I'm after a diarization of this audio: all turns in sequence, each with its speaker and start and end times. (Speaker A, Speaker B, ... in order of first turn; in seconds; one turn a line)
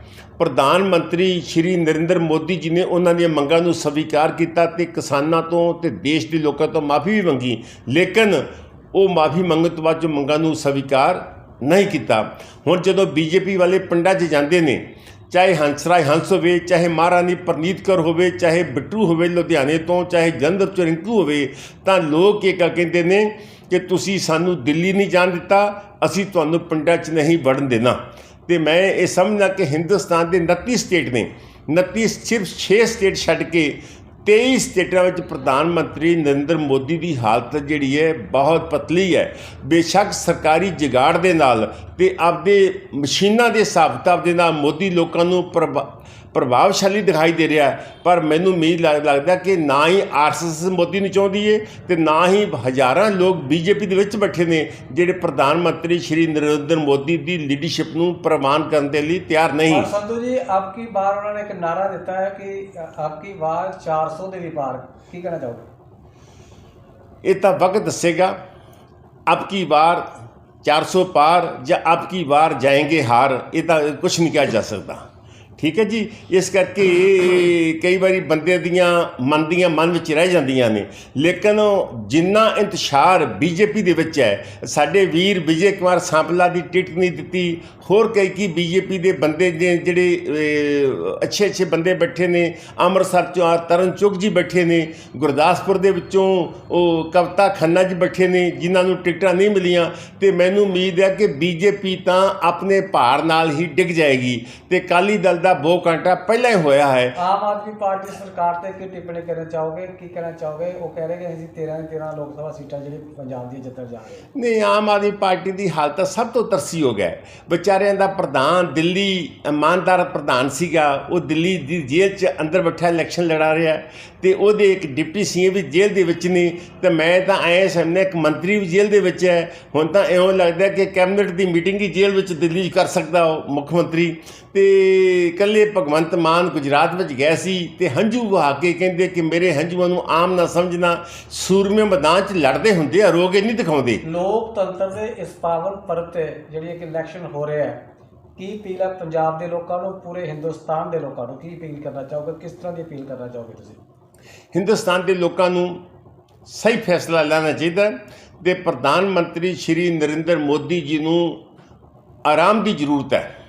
Speaker A: 0.4-59.9
Speaker B: 59.7-65.7
Speaker A: 67.2-68.4
Speaker A: 69.3-70.1
Speaker A: 70.6-75.0
Speaker A: 75.6-107.2
Speaker B: 107.2-114.3
Speaker A: 114.3-144.0
Speaker B: 144.0-147.8
Speaker B: 148.4-153.8
Speaker A: 154.5-155.8
Speaker A: 156.4-161.4
Speaker A: 162.2-163.3